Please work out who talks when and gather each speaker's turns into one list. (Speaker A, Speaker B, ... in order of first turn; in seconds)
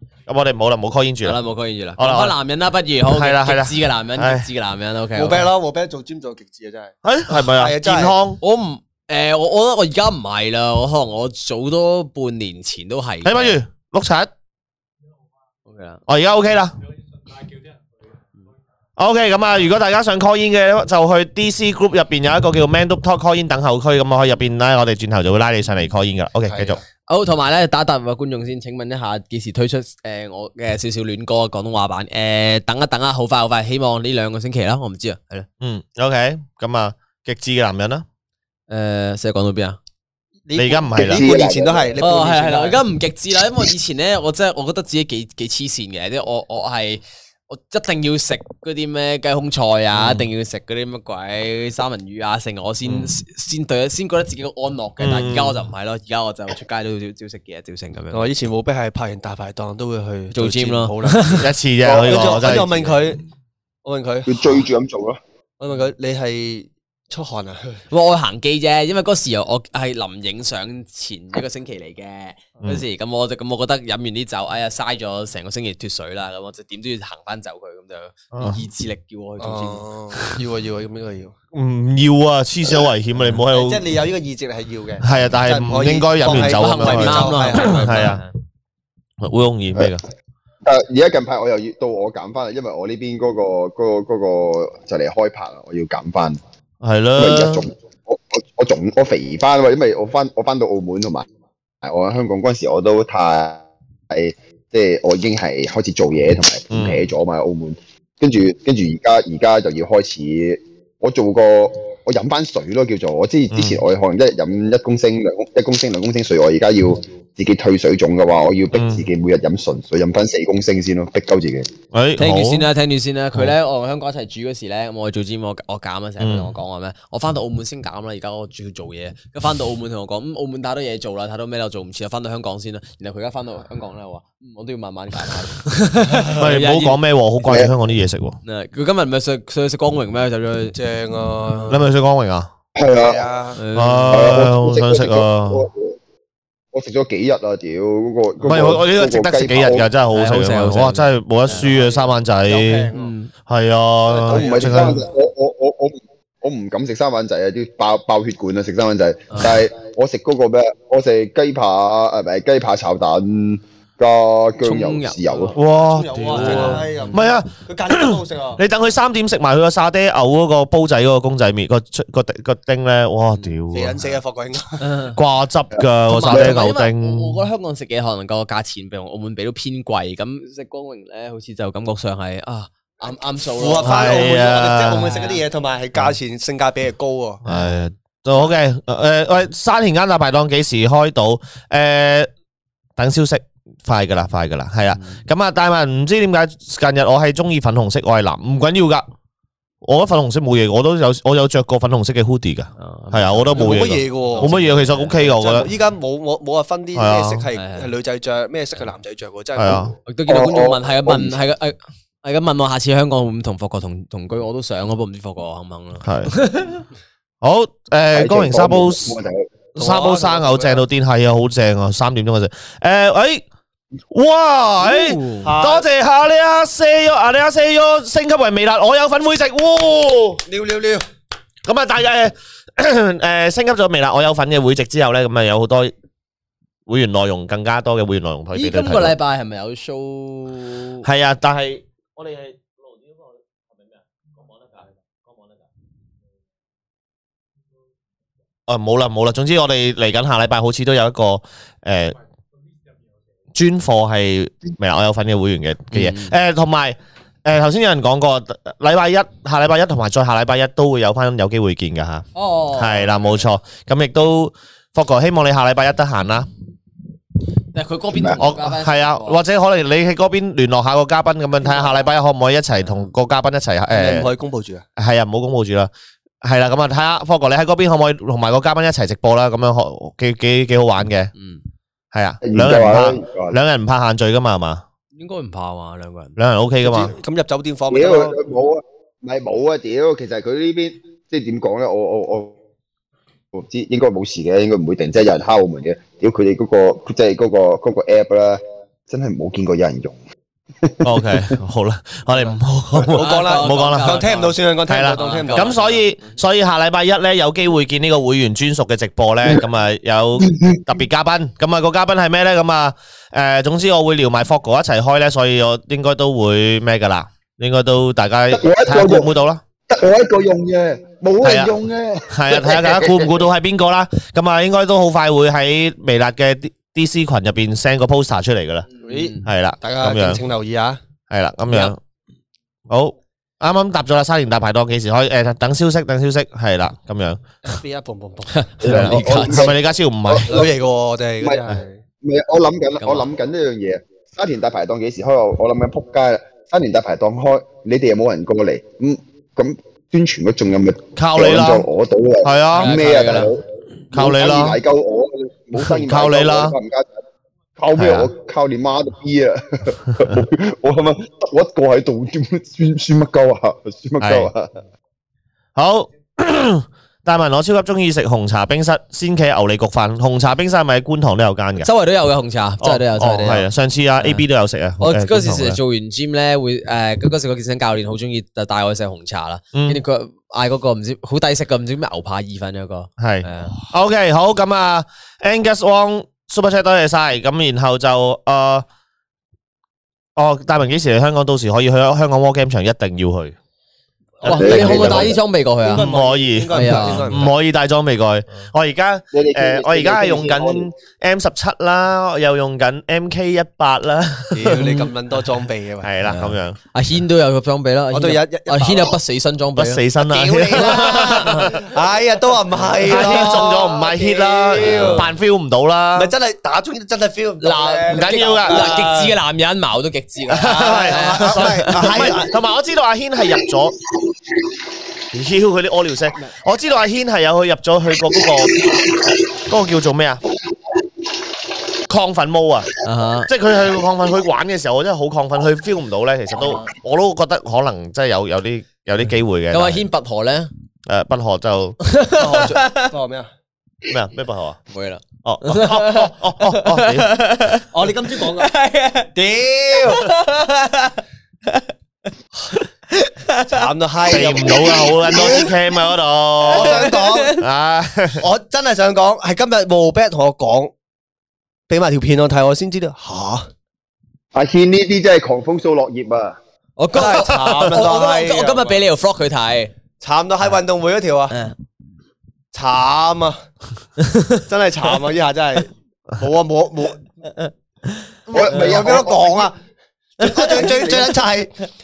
Speaker A: 0.3-1.4, 2.0-2.4, 3.1-4.4, 7.0-8.4, 13.2-14.3, 16.1-16.7, 19.0-26.8, 35.6-38.0, 40.5-41.3, 49.9-50.2, 52.9-53.1, 55.0-55.6, 61.4-63.0, 78.3-78.6, 81.5-83.8, 85.0-88.2, 89.2-90.0, 96.8-97.7, 106.7-107.1, 113.5-113.8, 118.7-119.0, 121.9-122.7, 126.2-126.5, 136.3-138.4, 141.7-142.5, 143.7-145.7, 148.4-152.9, 153.5-155.0, 165.5-174.1, 175.2-177.4, 183.8-185.1, 187.4-192.3, 193.0-199.0, 199.8-205.7, 206.9-207.4, 209.6-209.9, 216.0-216.3, 217.4-219.2, 219.7-223.4, 224.1-230.4, 231.6-235.9, 236.9-239.2, 241.0-245.6, 248.7-252.2, 253.5-266.5, 268.4-274.3, 275.0-275.9, 276.4-281.3, 282.1-284.8, 286.4-287.1, 301.0-304.2, 304.9-319.6, 321.4-321.8, 322.3-328.9, 329.4-330.4, 331.3-332.0, 332.9-337.4, 338.8-340.6, 351.1-351.9, 352.4-353.0, 354.1-354.8, 355.8-356.8, 357.9-358.3, 364.2-364.5, 365.8-371.9, 372.8-375.8, 379.7-380.0, 383.2-388.9, 390.4-393.5, 394.4-395.4, 395.9-404.9, 406.0-406.8, 409.8-411.8, 413.1-416.3, 418.1-419.0, 420.5-423.9, 425.3-428.9, 429.6-430.4, 432.1-432.9, 433.4-440.0, 441.1-442.0, 444.1-444.8, 445.4-447.4, 454.3-458.4
Speaker B: 1.2-5.5, 8.4-13.6, 15.7-16.0, 27.1-35.5, 38.7-39.8, 42.0-58.3, 60.3-61.5, 67.9-79.8, 86.2-88.3, 122.2-137.0, 138.4-140.7, 143.6-144.4, 150.1-151.8, 152.9-153.3, 159.3-159.6, 164.6-165.5, 166.2-167.2, 174.8-175.2, 176.1-184.3, 185.0-185.4, 194.9-195.2, 202.8-205.2, 207.5-207.9, 210.1-216.8, 224.8-225.5, 238.5-241.1, 255.9-256.3, 262.3-263.4, 267.7-269.4, 281.4-281.6, 285.1-286.4, 303.1-304.6, 305.1-306.4, 329.0-329.4, 338.5-339.7, 343.0-343.3, 352.7-353.5, 371.8-373.6, 375.0-383.8, 394.4-396.1, 396.7-397.4, 404.8-405.1, 406.2-410.0, 410.7-411.7, 412.9-413.7, 414.8-415.3, 417.6-422.2, 433.0-433.5, 439.7-440.7, 442.0-443.1, 444.9-449.3, 450.0-451.8, 453.1-453.9, 454.4-455.7, 456.7-457.6, 467.0-469.9, 474.2-474.6, 480.4-481.1
Speaker C: 5.1-8.2, 26.5-26.8, 40.5-42.8, 58.1-63.2, 63.8-64.7, 65.6-67.8, 79.4-81.3, 83.4-88.2, 140.7-141.8, 142.9-143.6, 151.5-153.1, 154.1-155.0, 165.6-168.6, 173.7-174.8, 183.5-187.4, 203.5-209.9, 219.8-220.8, 225.4-225.8, 230.5-231.0, 273.9-274.8, 286.8-288.4, 303.1-305.8, 329.0-331.0, 337.6-338.6, 340.5-342.0, 394.7-395.1, 395.8-397.5, 404.5-406.1, 408.1-409.2, 410.2-415.3, 416.1-419.4, 420.6-422.5, 442.3-443.5, 447.9-448.7, 449.3-450.3, 453.7-455.7, 456.6-457.5, 458.4-460.9, 461.9-463.7, 467.1-469.0, 470.2-471.5, 472.7-473.6, 474.6-477.2, 478.5-479.8, 480.4-481.7
Speaker D: 41.0-41.9, 61.8-62.4, 64.2-65.2, 90.6-96.4, 97.2-101.2, 101.8-121.7, 137.4-137.7, 142.7-143.2, 144.1-145.9, 146.7-149.9, 154.3-165.6, 210.3-211.4, 218.1-219.5, 268.1-268.4, 282.4-283.6, 287.9-292.5, 293.5-300.2, 300.8-301.6, 310.4-310.8, 318.5-319.3, 319.9-323.4, 338.8-340.7, 342.2-357.2, 357.8-364.8, 394.4-395.4, 399.3-400.9, 464.5-466.6, 478.5-479.7, 480.7-481.1